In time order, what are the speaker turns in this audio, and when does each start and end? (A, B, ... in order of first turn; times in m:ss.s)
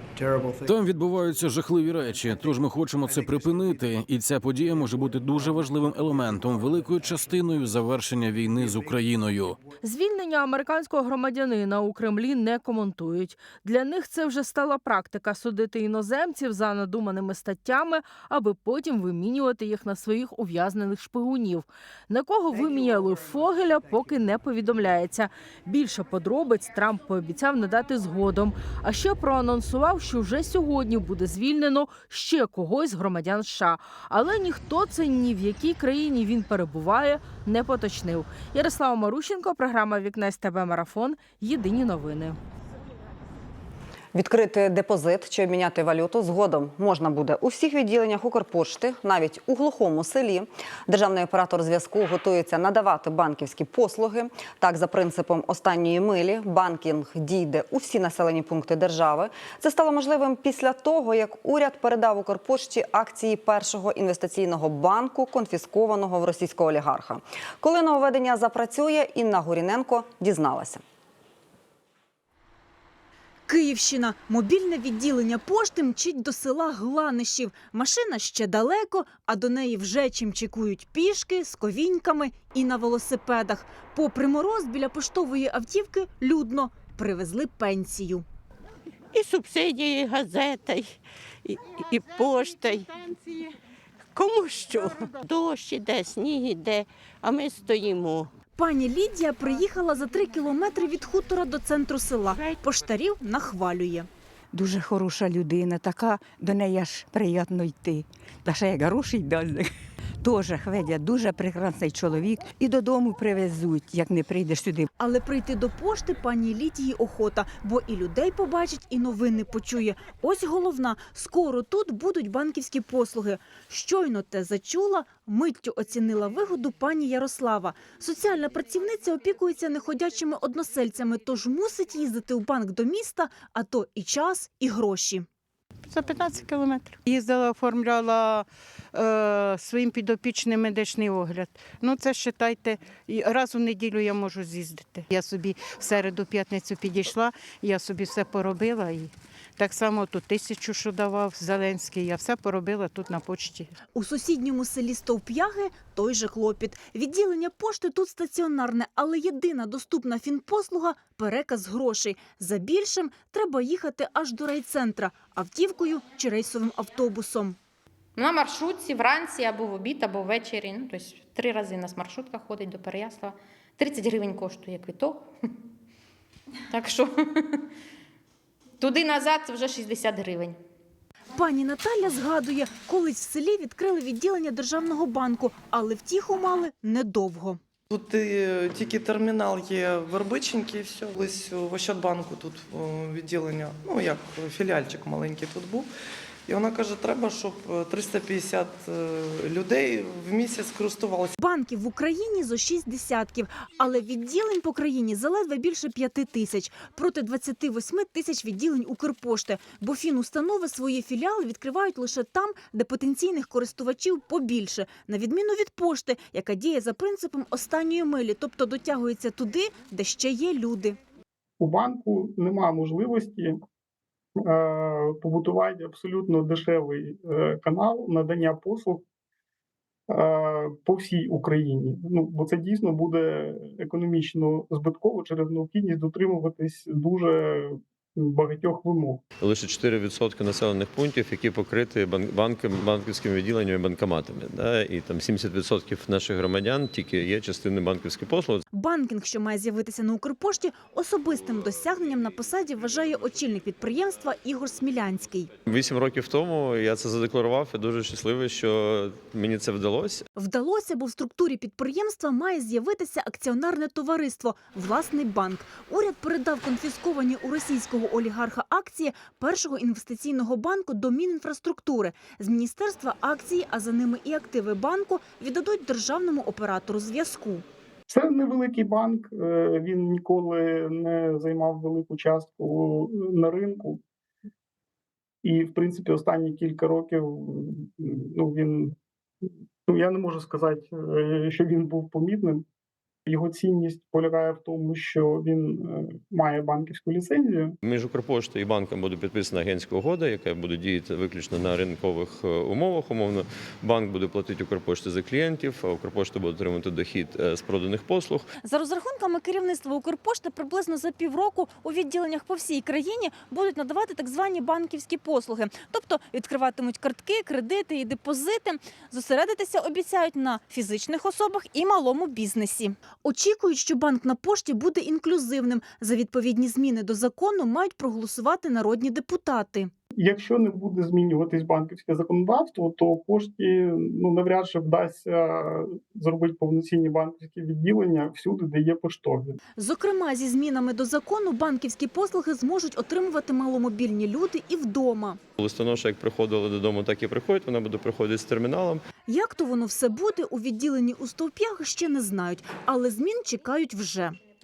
0:00.6-0:09.6 A
0:09.8-0:42.4 B
0:44.1-1:10.8 C
1:13.5-1:28.2 D
1:29.2-1:29.5 E
1:32.0-1:32.7 E
1:34.2-1:34.9 E
1:37.6-1:38.0 E
1:38.5-1:44.1 D
1:44.5-1:54.8 F
1:55.0-2:15.2 D
2:15.9-2:33.7 G
2:33.9-2:47.6 D
2:48.2-2:55.3 H
2:56.7-2:57.6 H
2:58.8-3:00.6 H
3:01.4-3:07.6 D
3:07.9-3:15.9 I
3:16.5-3:21.3 I
3:21.4-3:41.0 D
3:41.6-3:43.6 J
3:44.4-3:49.0 J
3:50.1-3:59.2 J
3:59.4-4:08.6 K
4:08.7-4:15.5 D
4:15.7-4:20.2 K
4:20.4-4:37.6 D
4:38.1-4:44.0 J
4:45.4-4:48.9 J
4:49.9-4:52.6 J
4:53.2-4:57.7 J
4:57.8-5:08.5 K
5:08.6-5:29.9 D
5:30.1-5:39.6 J
5:39.8-5:45.4 D
5:45.6-5:49.0 K
5:49.3-5:54.4 D